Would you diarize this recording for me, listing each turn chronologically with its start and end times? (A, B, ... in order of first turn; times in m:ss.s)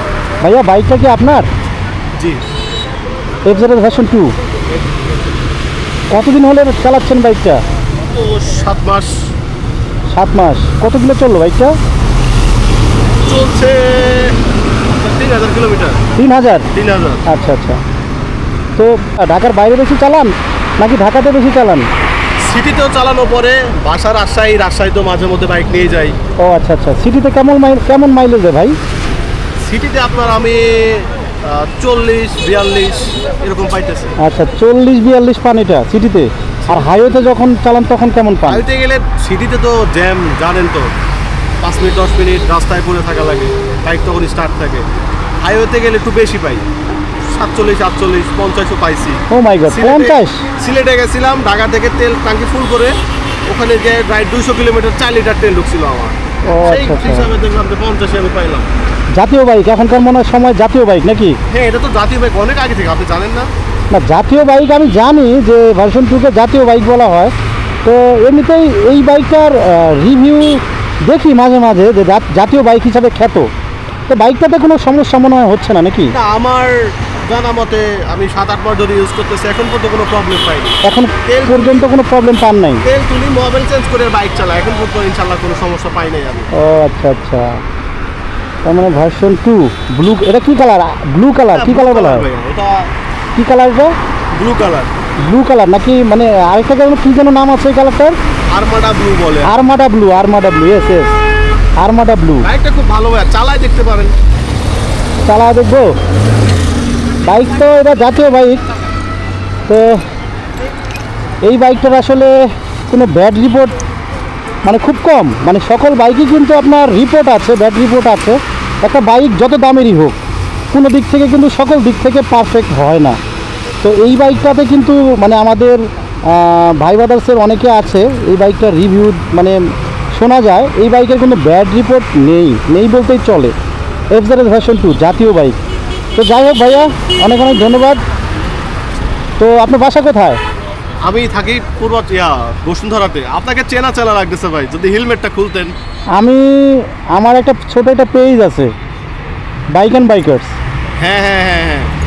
0:00.4-0:01.5 A
0:02.2-0:02.4 B
0:03.4-0:04.3 A
0:06.1-0:07.6 A
0:08.1-0:09.3 B
0:10.1-0:11.8 A
0:13.2-0:14.4 B
0:14.9-0:16.0 B
0:16.2-0:16.7 A
0:16.7-0:17.2 B
0:17.2-0:17.8 A
0:18.8-0:21.9 A
0:22.4-0:26.1 B
0:26.4-0:28.8 A
0:29.6-0:34.2 B
0:34.2-0:38.6 A
0:36.6-0:36.9 B
0:38.4-0:40.9 B
0:41.6-0:44.8 B
0:45.4-0:46.6 B
0:47.2-0:53.0 B
0:49.3-0:50.4 A
0:53.5-0:58.7 B
0:56.4-0:57.3 A
0:59.1-1:01.4 A
1:01.5-1:03.5 B
1:03.9-1:07.3 A
1:07.8-1:13.5 A
1:14.1-1:16.1 A
1:16.1-1:21.9 B
1:20.8-1:22.8 A
1:22.8-1:26.5 B
1:26.5-1:27.6 A
1:28.6-1:32.3 A
1:31.5-1:32.9 B
1:33.4-1:34.0 A
1:34.3-1:34.9 B
1:35.2-1:38.2 A
1:38.5-1:39.6 B
1:39.4-1:41.2 A
1:41.8-1:42.4 A
1:42.4-1:44.1 B
1:45.2-1:46.0 A
1:47.2-1:48.6 A
1:49.7-1:50.0 A
1:51.4-1:53.7 A
1:54.6-2:00.2 A
2:00.7-2:03.2 A
2:03.8-2:13.5 A
2:14.1-2:15.6 A
2:16.1-2:18.0 A
2:19.4-2:20.4 A
2:21.0-2:25.7 B
2:26.1-2:28.7 A
2:29.7-2:30.5 A
2:31.0-2:31.9 B